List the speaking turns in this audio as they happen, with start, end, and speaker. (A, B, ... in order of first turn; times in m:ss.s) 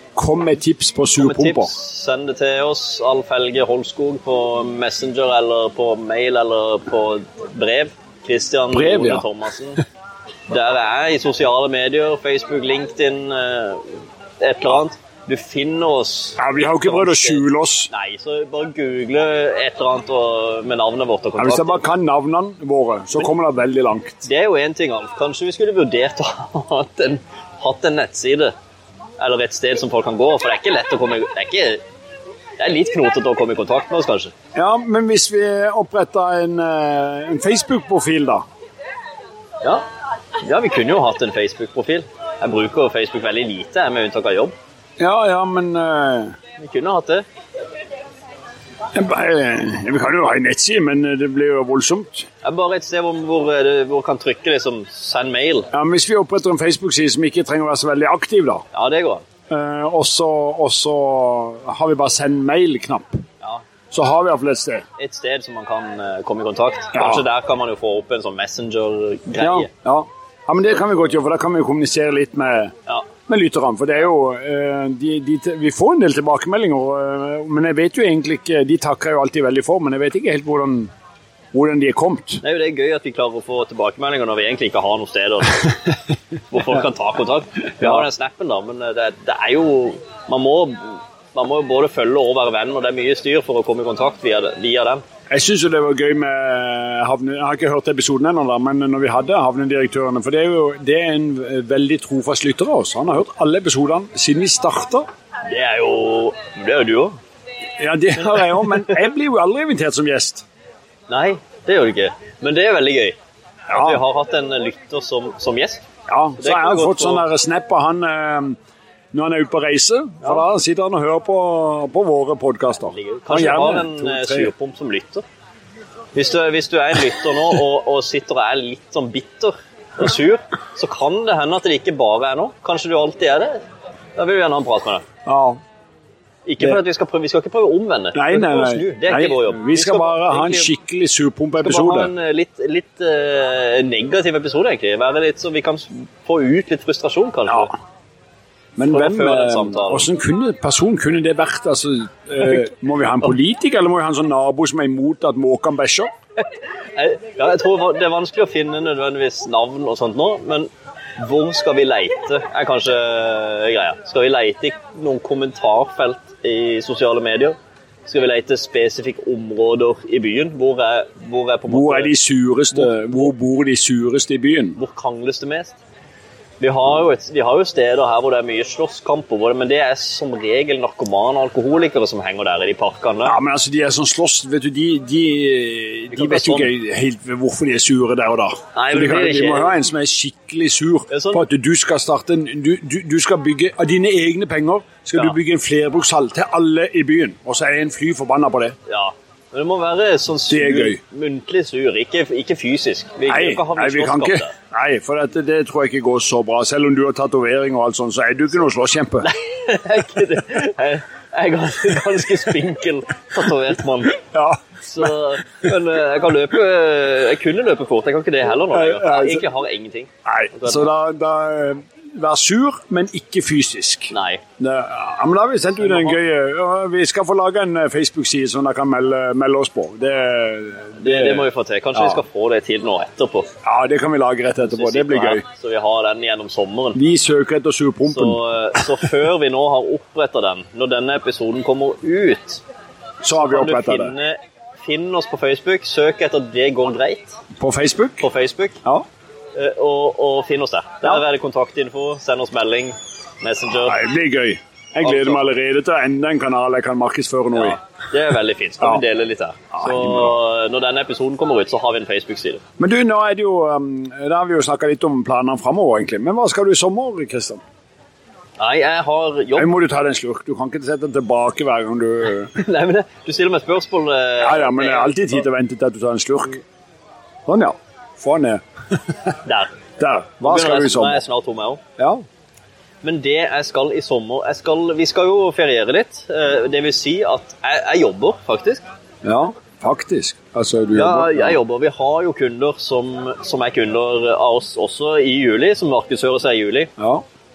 0:00.2-0:01.7 A
0:01.2-0:09.8 B
0:08.7-0:09.2 A
0:10.5-0:21.8 B
0:16.4-0:17.9 A
0:21.4-0:24.2 A
0:24.2-0:28.5 B
0:29.2-0:31.8 B
0:32.6-0:34.3 B
0:34.5-0:38.4 A
0:40.4-0:44.5 B
0:45.0-0:46.4 A
0:46.6-0:47.2 B
0:48.9-0:52.2 A
0:52.4-0:55.7 B
0:55.7-0:58.6 A
0:58.7-0:59.2 B
0:59.5-1:03.2 A
1:03.9-1:04.8 A
1:05.0-1:09.7 B
1:06.9-1:07.2 A
1:09.4-1:12.7 A
1:13.3-1:20.9 A
1:21.5-1:22.4 A
1:22.4-1:25.9 B
1:26.5-1:35.0 B
1:35.3-1:45.0 A
1:45.5-1:47.2 B
1:47.8-1:50.4 A
1:51.1-1:53.2 B
1:53.7-1:55.8 B
1:53.7-1:54.0 A
1:56.1-1:58.6 A
1:56.4-1:57.3 B
1:59.1-2:04.5 A
2:02.8-2:05.2 B
2:06.1-2:13.6 B
2:14.2-2:15.0 B
2:15.2-2:15.6 A
2:16.4-2:20.7 B
2:18.1-2:22.1 A
2:21.6-2:27.7 B
2:28.8-2:36.1 A
2:28.9-2:30.1 B
2:36.9-2:52.1 B
2:51.7-2:54.8 A
2:52.7-2:53.2 B
2:54.8-2:55.8 B
2:56.6-3:03.4 B
3:03.2-3:18.8 A
3:06.1-3:06.7 B
3:08.7-3:09.8 B
3:11.1-3:11.4 B
3:18.9-3:24.5 B
3:20.5-3:21.0 A
3:23.3-3:29.3 A
3:29.2-3:34.2 B
3:34.3-3:35.4 A
3:34.8-3:40.9 B
3:38.7-3:39.5 A
3:40.2-3:52.2 A
3:44.1-3:44.4 B
3:45.8-3:46.2 B
3:51.0-3:53.5 B
3:53.6-3:55.4 A
3:54.6-3:57.0 B
3:56.9-3:59.0 A
3:58.0-4:02.6 B
4:03.2-4:04.1 A
4:03.3-4:07.4 B
4:07.6-4:08.2 A
4:08.2-4:08.8 B
4:09.5-4:14.0 B
4:13.8-4:17.8 A
4:15.0-4:15.4 B
4:17.5-4:22.6 B
4:19.7-4:20.4 A
4:22.8-4:27.6 A
4:28.6-4:29.7 B
4:29.5-4:32.5 A
4:32.5-4:35.4 B
4:34.4-4:36.6 A
4:37.4-4:39.4 A
4:39.4-4:39.7 B
4:40.0-4:41.2 A
4:40.4-4:41.8 B
4:42.0-4:42.2 A
4:43.0-4:48.8 B
4:49.2-4:51.6 A
4:50.9-4:56.9 B
4:57.0-4:57.2 A